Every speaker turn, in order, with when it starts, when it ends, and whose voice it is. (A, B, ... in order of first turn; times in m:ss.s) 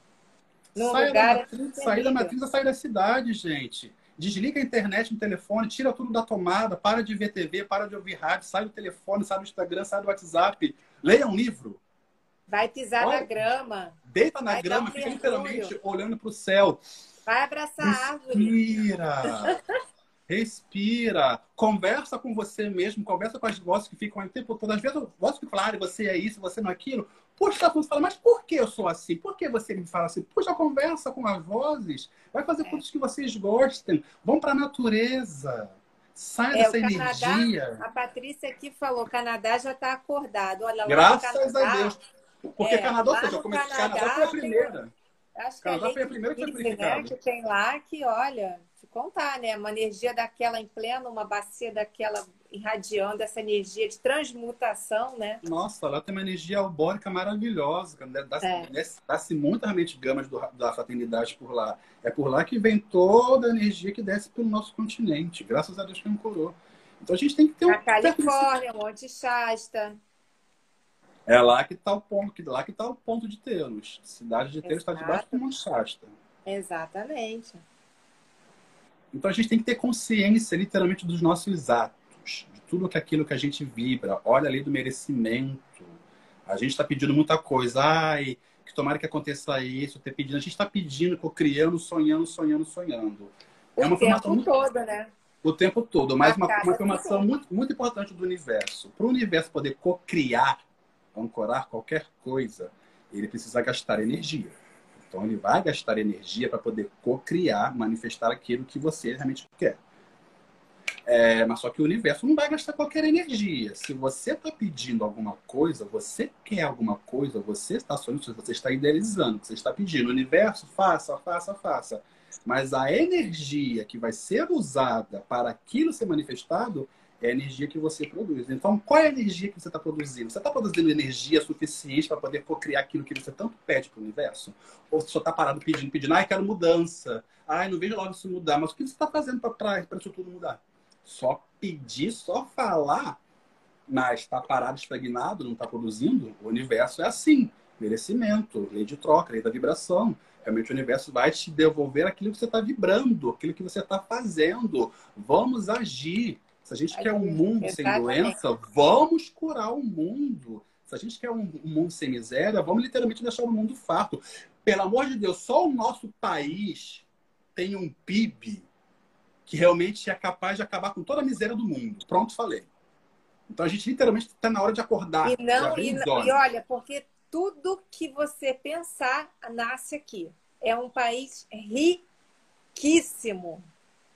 0:00.7-0:02.3 A
0:00.7-0:11.8 B
0:12.5-0:14.0 A
0:13.0-0:13.3 B
0:14.0-0:16.8 B
0:14.5-0:15.7 A
0:17.3-0:18.6 A
0:17.8-0:19.6 B
0:19.2-0:19.6 A
0:20.3-0:37.8 B
0:36.5-0:42.0 A
0:40.8-0:42.0 B
0:42.6-0:44.9 B
0:42.6-0:44.7 A
0:45.4-0:55.4 A
0:45.6-0:47.1 B
0:55.4-1:08.5 B
0:58.4-0:58.7 A
1:07.7-1:10.0 A
1:11.3-1:16.1 B
1:14.6-1:15.4 A
1:16.4-1:17.6 A
1:19.1-1:34.5 B
1:33.8-1:35.1 A
1:35.4-1:40.6 B
1:36.2-1:37.2 A
1:41.1-1:49.8 B
1:51.0-2:23.2 B
2:23.9-2:48.7 B
2:36.9-2:38.4 A
2:49.5-2:52.7 B
2:53.5-2:56.4 B
2:55.2-3:02.0 A
3:02.8-3:03.6 A